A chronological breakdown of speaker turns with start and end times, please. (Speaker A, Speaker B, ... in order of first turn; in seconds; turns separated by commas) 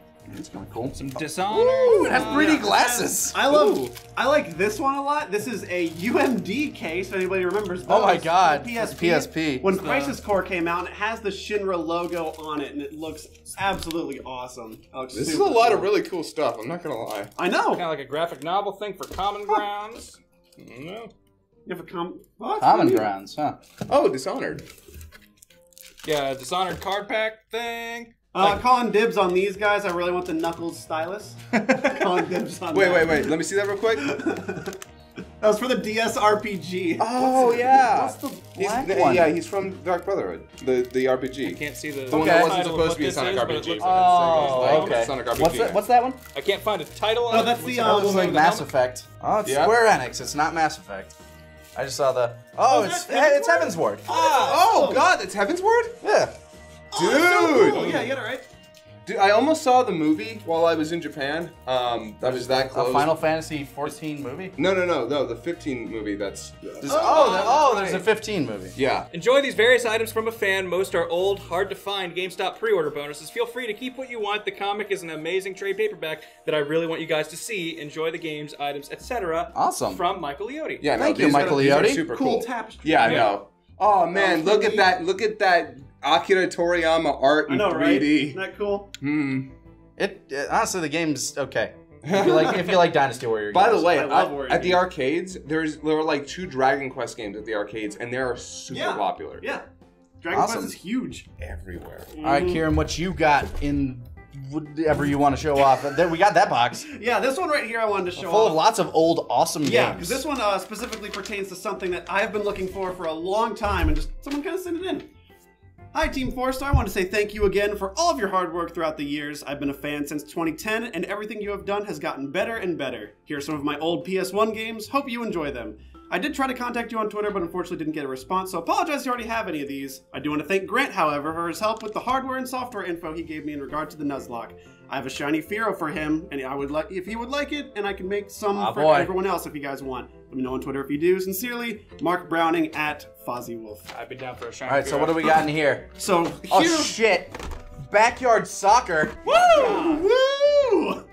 Speaker A: 0.3-3.4, Speaker B: 0.9-2.6, Speaker C: 1.6-2.2, Speaker D: 2.1-15.9, Speaker A: 7.9-9.7, Speaker B: 9.7-10.2, Speaker C: 15.1-17.3, Speaker D: 17.4-17.8, Speaker B: 17.8-21.1, Speaker D: 21.6-23.1, Speaker A: 22.6-23.6, Speaker C: 23.9-24.6, Speaker B: 26.0-28.6, Speaker D: 28.3-33.4, Speaker C: 32.7-34.1, Speaker D: 33.9-34.8, Speaker D: 35.4-38.2, Speaker A: 37.0-39.3, Speaker C: 37.1-45.8, Speaker B: 41.4-45.1, Speaker A: 42.1-42.6, Speaker A: 43.8-46.2, Speaker B: 46.3-48.6, Speaker D: 47.3-48.4, Speaker A: 47.8-51.1, Speaker C: 49.4-49.7, Speaker A: 51.7-54.4, Speaker D: 52.7-55.0, Speaker C: 54.3-56.0, Speaker A: 56.0-56.3, Speaker D: 56.9-58.5, Speaker C: 57.0-58.1, Speaker B: 57.7-58.1, Speaker C: 59.0-63.1, Speaker A: 62.2-64.5, Speaker C: 64.5-68.0, Speaker A: 66.8-68.8, Speaker D: 66.9-67.7, Speaker C: 68.8-69.0, Speaker B: 69.1-80.8, Speaker A: 79.5-80.0, Speaker C: 80.8-88.4, Speaker A: 81.0-82.1, Speaker D: 81.1-83.3, Speaker B: 83.0-83.3, Speaker D: 84.1-84.9, Speaker D: 87.5-88.9, Speaker C: 89.0-89.5, Speaker A: 90.0-93.9, Speaker C: 92.0-92.8, Speaker D: 92.3-92.5, Speaker C: 93.5-99.4, Speaker D: 93.8-94.8, Speaker D: 98.7-99.7, Speaker D: 100.2-101.3, Speaker A: 100.3-100.7, Speaker C: 101.4-102.2, Speaker D: 102.1-102.6, Speaker A: 102.2-106.9, Speaker D: 106.9-108.6, Speaker A: 108.2-110.2, Speaker D: 109.6-115.1, Speaker D: 115.9-143.9, Speaker A: 138.5-139.1, Speaker B: 143.9-145.3, Speaker A: 144.7-149.4, Speaker D: 145.9-146.9, Speaker D: 149.3-151.0, Speaker B: 149.3-150.1